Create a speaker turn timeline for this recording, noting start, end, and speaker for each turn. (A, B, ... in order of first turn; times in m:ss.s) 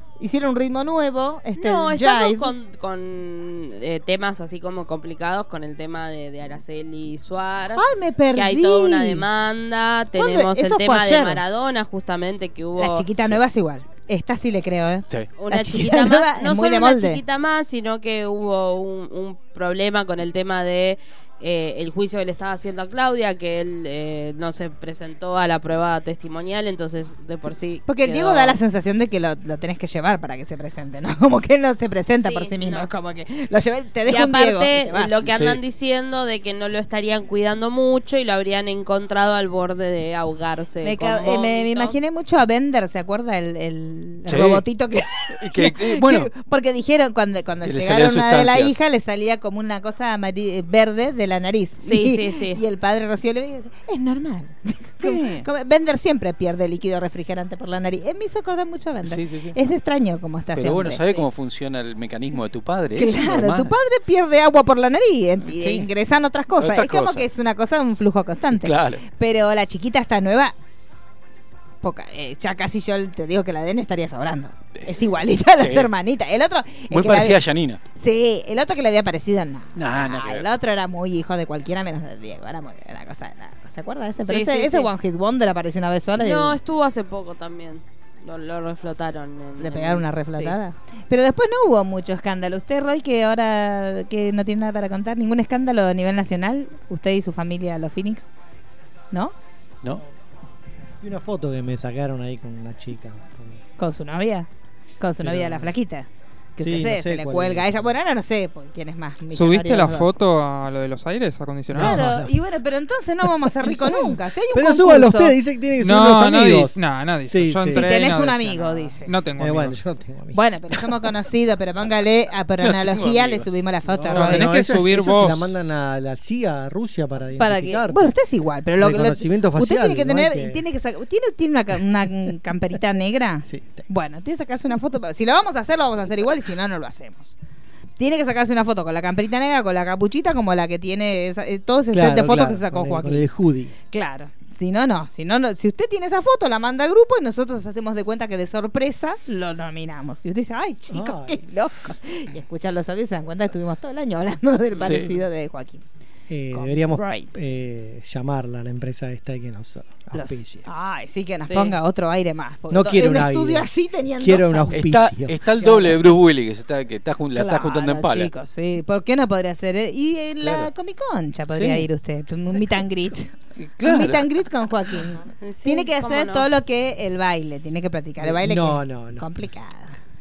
0:00.2-0:02.5 A
0:01.6-0:13.1 B
0:07.8-0:09.2 A
0:10.1-0:11.4 A
0:12.8-0:17.2 A
0:15.4-0:28.6 B
0:27.8-0:35.3 A
0:32.2-0:32.9 B
0:34.0-0:41.9 B
0:35.2-0:35.6 C
0:40.8-1:01.2 A
0:44.2-0:44.6 C
0:45.4-0:46.3 C
0:47.6-0:48.8 C
0:51.8-0:52.6 B
0:55.0-0:55.4 C
0:59.0-0:59.6 C
1:00.5-1:03.7 C
1:02.9-1:10.5 A
1:05.5-1:05.9 C
1:06.5-1:07.3 C
1:08.5-1:09.0 C
1:11.8-1:17.4 A
1:14.8-1:15.9 C
1:16.9-1:17.8 C
1:17.9-1:26.6 A
1:19.8-1:20.5 C
1:24.2-1:24.9 B
1:26.2-1:30.6 B
1:29.6-1:38.3 A
1:41.0-1:43.6 D
1:43.8-1:44.5 A
1:45.0-1:50.2 A
1:45.2-1:45.7 D
1:46.6-1:47.9 D
1:49.3-1:52.0 E
1:51.7-1:52.4 D
1:51.7-1:55.3 A
1:53.2-1:57.9 D
1:55.8-1:59.8 E
1:57.7-1:59.1 A
1:59.4-2:00.4 D
2:00.3-2:04.5 A
2:02.6-2:03.6 C
2:03.9-2:08.1 D
2:04.1-2:05.5 E
2:07.4-2:17.4 A
2:08.8-2:10.6 D
2:13.4-2:13.9 D
2:18.0-2:23.3 A
2:21.9-2:23.7 D
2:23.9-2:35.8 A
2:30.9-2:31.4 D
2:34.8-2:35.1 C
2:36.3-2:40.6 D
2:36.5-2:37.3 A
2:40.1-2:44.9 A
2:41.4-2:41.8 B
2:42.7-2:45.4 D
2:44.7-2:48.3 C
2:45.6-2:46.1 A
2:47.3-3:00.0 A
2:50.4-2:50.7 C
2:51.5-2:51.9 D
2:53.6-2:54.3 C
2:55.4-2:56.5 B
2:58.2-2:59.5 D